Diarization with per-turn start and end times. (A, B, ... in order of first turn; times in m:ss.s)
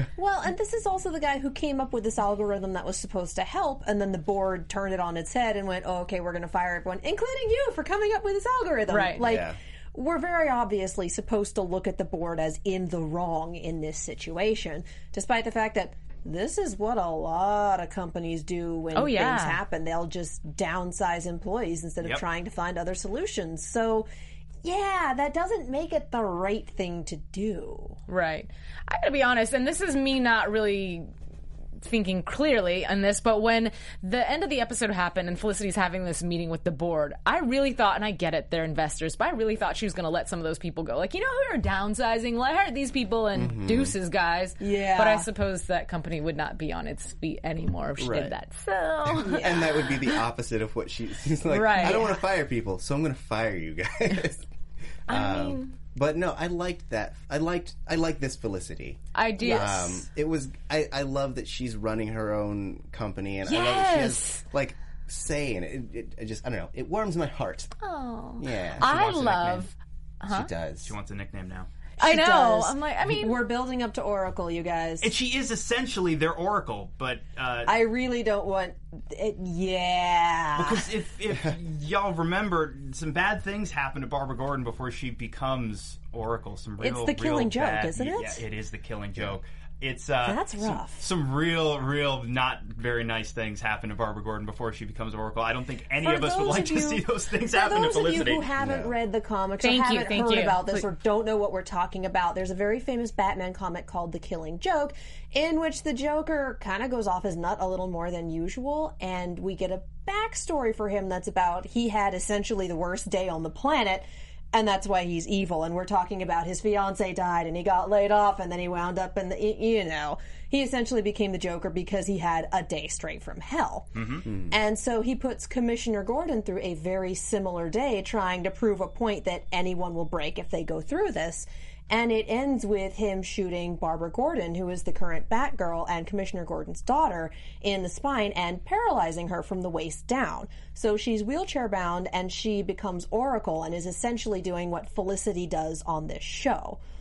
0:00.2-0:24.1 A
0:08.9-0:09.2 B
0:09.2-0:09.6 C
0:18.9-0:19.6 B
0:24.6-0:28.0 A
0:28.1-0:31.1 B
0:31.8-0:50.2 B
0:43.4-0:44.0 C
0:44.6-0:45.3 A
0:48.0-0:48.3 C
0:49.1-0:54.4 C
0:51.5-0:52.2 B
0:51.8-0:52.1 A
0:55.1-1:07.7 C
0:55.1-0:55.8 B
0:59.2-1:00.0 B
1:03.5-1:04.4 B
1:07.8-1:10.5 B
1:08.4-1:08.9 C
1:08.8-1:09.6 D
1:10.3-1:10.9 C
1:10.8-1:11.7 D
1:12.0-1:13.4 B
1:12.0-1:15.1 A
1:15.0-1:17.7 D
1:17.7-1:20.9 A
1:20.6-1:38.5 D
1:26.8-1:28.4 A
1:30.2-1:31.0 A
1:36.0-2:26.8 A
1:38.6-1:38.9 C
1:39.6-1:40.8 B
2:04.0-2:04.3 D